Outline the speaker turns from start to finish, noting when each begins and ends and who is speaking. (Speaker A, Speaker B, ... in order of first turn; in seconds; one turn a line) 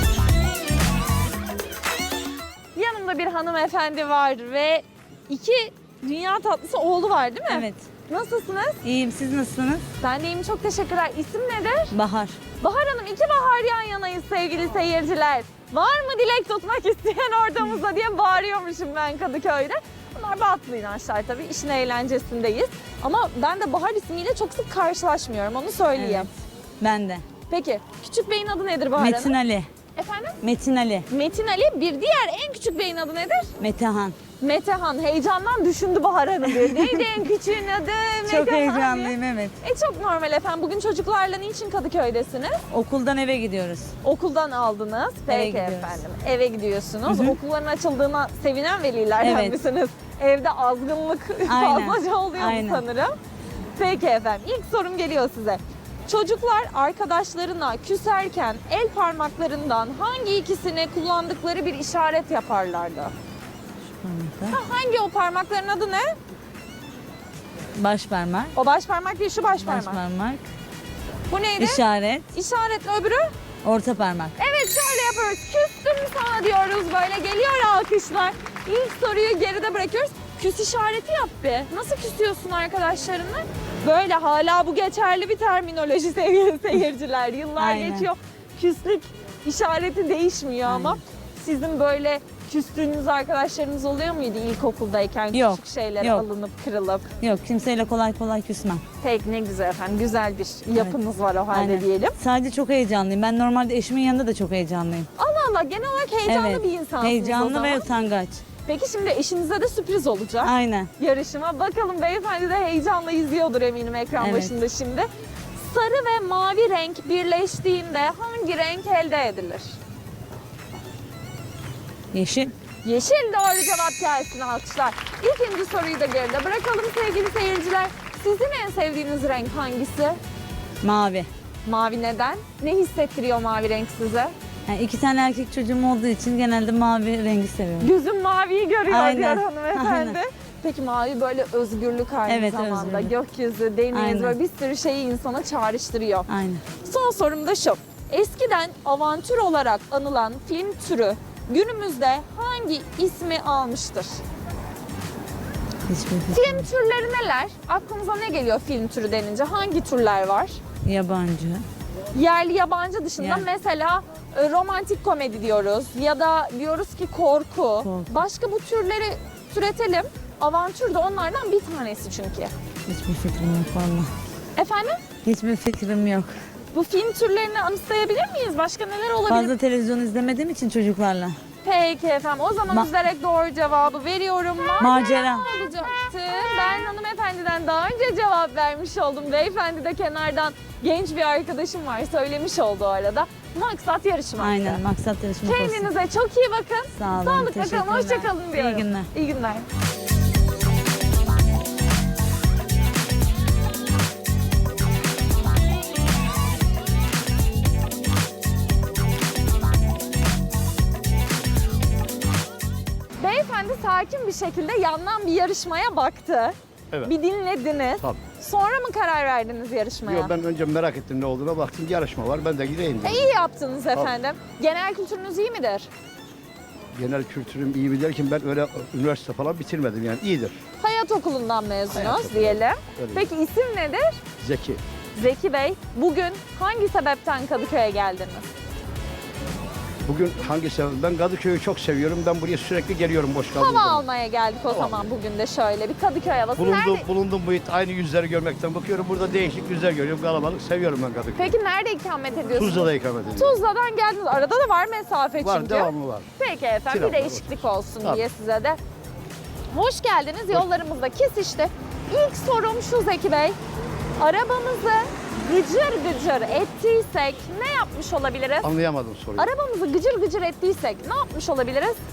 Speaker A: 2.7-8.8
Speaker B: 7.5-7.8
Speaker B: 8.8-9.8
Speaker A: 10.0-11.9
Speaker B: 11.9-12.4
Speaker A: 12.6-26.3
Speaker B: 25.9-27.2
Speaker A: 27.5-29.4
Speaker B: 29.0-29.7
Speaker A: 29.9-30.4
Speaker B: 30.4-31.1
Speaker A: 31.1-33.5
Speaker B: 33.6-34.1
Speaker A: 34.4-42.6
Speaker B: 36.5-37.0
Speaker B: 38.3-39.5
Speaker B: 42.7-43.9
Speaker A: 44.0-53.1
Speaker B: 45.3-46.0
Speaker B: 47.1-47.4
Speaker B: 49.2-49.6
Speaker B: 51.5-52.8
Speaker A: 53.8-63.1
Speaker B: 63.9-64.6
Speaker A: 64.5-66.2
Speaker B: 67.7-68.5
Speaker A: 68.5-70.0
Speaker B: 69.6-70.4
Speaker A: 71.3-73.3
Speaker B: 71.6-72.2
Speaker B: 73.6-74.3
Speaker A: 74.4-97.1
Speaker B: 87.6-88.1
Speaker B: 90.7-91.0
Speaker B: 95.3-96.2
Speaker B: 97.2-98.8
Speaker A: 99.0-102.2
Speaker B: 101.5-105.1
Speaker A: 105.2-107.9
Speaker B: 106.3-108.4
Speaker A: 108.6-119.8
Speaker B: 110.4-110.9
Speaker B: 114.2-114.5
Speaker B: 122.1-122.5
Speaker A: 122.8-130.2
Speaker B: 130.8-131.3
Speaker A: 131.6-134.3
Speaker B: 134.7-137.9
Speaker A: 137.8-146.3
Speaker B: 138.9-140.2
Speaker B: 142.3-143.1
Speaker B: 143.9-144.3
Speaker B: 146.3-146.6
Speaker A: 146.8-154.2
Speaker B: 155.9-156.7
Speaker A: 156.3-160.6
Speaker B: 160.8-161.6
Speaker A: 162.1-172.5
Speaker B: 163.2-163.5
Speaker B: 167.8-168.1
Speaker B: 172.9-174.1
Speaker A: 174.6-175.0
Speaker B: 175.2-176.3
Speaker A: 176.7-179.5
Speaker B: 179.3-181.3
Speaker A: 181.6-194.8
Speaker B: 184.8-185.5
Speaker B: 194.4-195.9
Speaker A: 195.4-199.7
Speaker B: 196.9-199.1
Speaker A: 213.2-220.3
Speaker C: 220.0-223.3
Speaker A: 223.0-225.9
Speaker C: 226.9-230.6
Speaker A: 230.8-234.2
Speaker C: 231.9-233.2
Speaker C: 234.4-234.8
Speaker A: 235.1-238.5
Speaker C: 240.1-244.1
Speaker A: 243.5-247.1
Speaker C: 244.7-245.1
Speaker C: 246.6-251.5
Speaker A: 251.3-258.8
Speaker C: 252.5-253.6
Speaker C: 255.4-256.3
Speaker C: 256.9-258.2
Speaker A: 259.7-263.6
Speaker A: 264.2-268.7
Speaker C: 268.6-269.5
Speaker A: 269.4-272.0